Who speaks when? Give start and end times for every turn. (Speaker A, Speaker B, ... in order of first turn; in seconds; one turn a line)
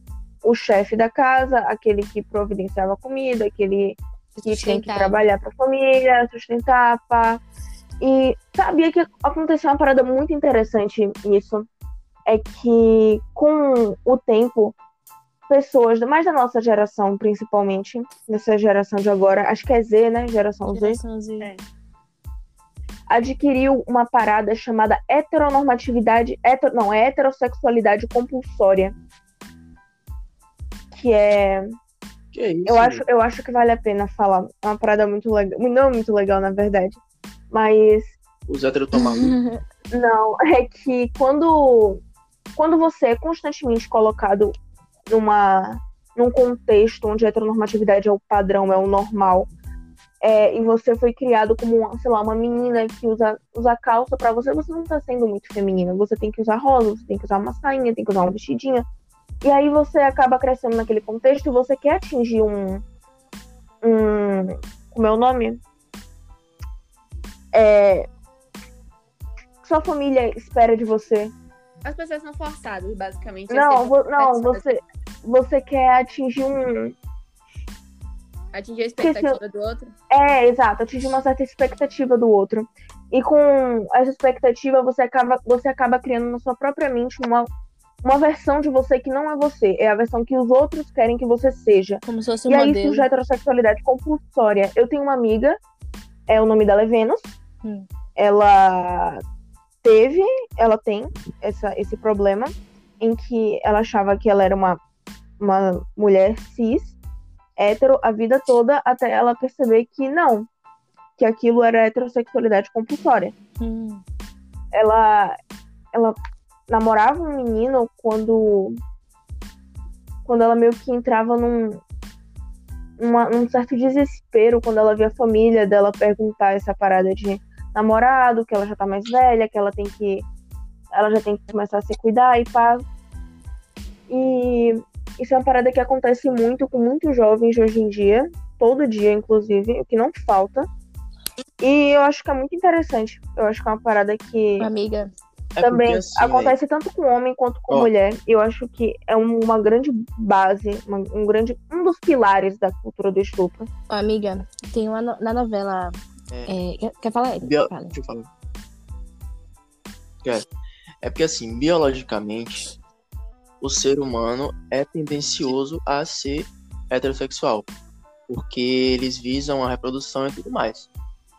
Speaker A: 0.4-7.4
Speaker B: 4.3-5.2
Speaker A: 8.0-11.7
Speaker A: 12.2-14.8
Speaker A: 15.5-21.0
Speaker B: 20.7-21.5
Speaker C: 21.4-21.6
Speaker A: 23.1-28.9
Speaker A: 30.9-31.7
Speaker D: 32.3-33.0
Speaker A: 32.6-37.0
Speaker A: 37.5-38.1
Speaker D: 38.5-39.4
Speaker B: 39.0-39.6
Speaker A: 39.9-42.0
Speaker A: 42.5-44.5
Speaker A: 45.1-49.5
Speaker A: 50.2-58.9
Speaker A: 59.4-62.8
Speaker A: 63.8-65.6
Speaker A: 67.5-68.1
Speaker A: 69.6-71.3
Speaker C: 71.8-74.6
Speaker A: 73.5-76.9
Speaker C: 78.5-79.9
Speaker A: 79.0-79.4
Speaker A: 80.1-87.5
Speaker A: 88.0-95.6
Speaker B: 92.0-93.1
Speaker A: 96.3-97.3
Speaker A: 98.2-99.2
Speaker A: 99.8-104.8
Speaker A: 105.4-107.0
Speaker A: 107.6-110.5
Speaker A: 111.2-113.3
Speaker B: 113.6-114.0
Speaker A: 114.7-115.4
Speaker A: 115.9-116.2
Speaker A: 116.7-118.8
Speaker A: 120.2-121.8
Speaker A: 123.0-130.2
Speaker A: 130.9-132.8
Speaker A: 134.1-140.7
Speaker A: 141.6-144.7
Speaker B: 144.6-145.1
Speaker D: 145.5-146.6
Speaker A: 145.6-153.7
Speaker B: 153.9-157.9
Speaker D: 157.4-158.3
Speaker D: 161.0-162.7
Speaker D: 163.6-167.7
Speaker D: 168.3-170.9